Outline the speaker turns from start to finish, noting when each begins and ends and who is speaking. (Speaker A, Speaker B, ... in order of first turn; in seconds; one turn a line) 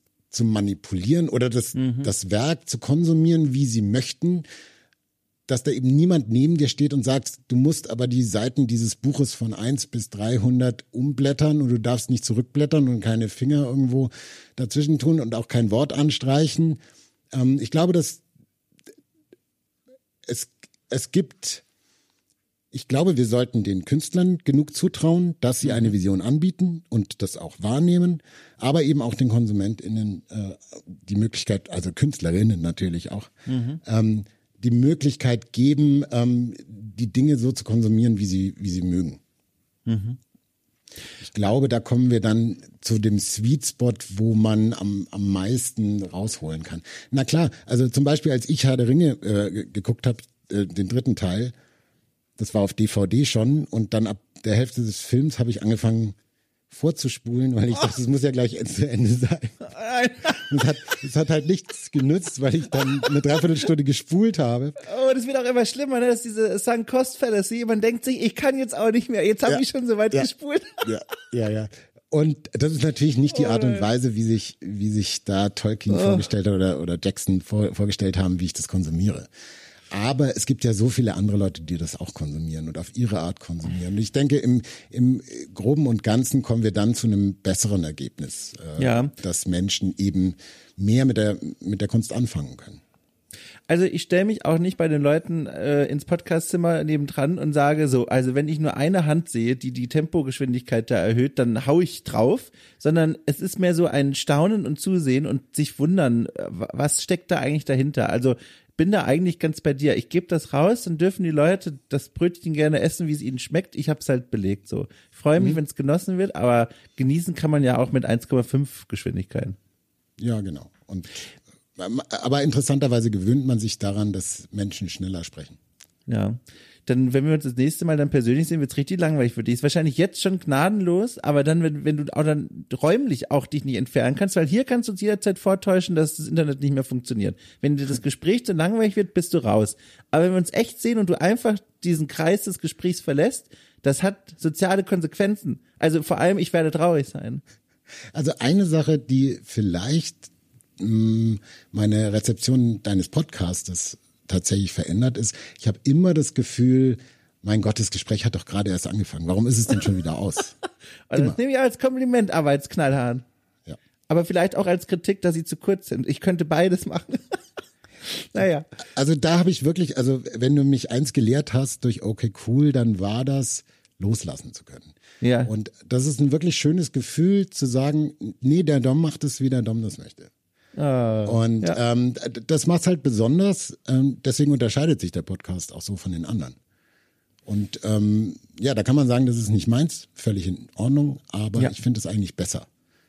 Speaker A: 0.3-4.5
Speaker B: 1.8-2.1
Speaker A: 5.5-16.8
Speaker A: 17.3-18.2
Speaker A: 20.2-21.6
Speaker A: 22.7-33.3
Speaker B: 25.6-25.9
Speaker B: 33.5-33.8
Speaker A: 33.8-39.2
Speaker B: 39.9-40.2
Speaker A: 41.2-51.5
Speaker A: 52.4-56.2
Speaker A: 56.7-59.7
Speaker B: 59.7-60.5
Speaker A: 60.3-64.8
Speaker B: 64.8-70.9
Speaker A: 69.5-70.3
Speaker A: 70.8-79.3
Speaker B: 73.3-73.9
Speaker B: 75.9-76.3
Speaker A: 79.9-92.8
Speaker B: 88.8-89.1
Speaker B: 93.7-119.6
Speaker A: 120.2-121.2
Speaker A: 121.8-125.6
Speaker B: 126.1-147.4
Speaker A: 148.1-160.6
Speaker B: 161.1-163.2
Speaker B: 164.1-167.4
Speaker B: 168.1-168.7
Speaker A: 168.9-174.9
Speaker B: 175.2-175.5
Speaker A: 175.5-180.3
Speaker B: 180.8-181.8
Speaker A: 181.3-186.6
Speaker A: 187.5-192.7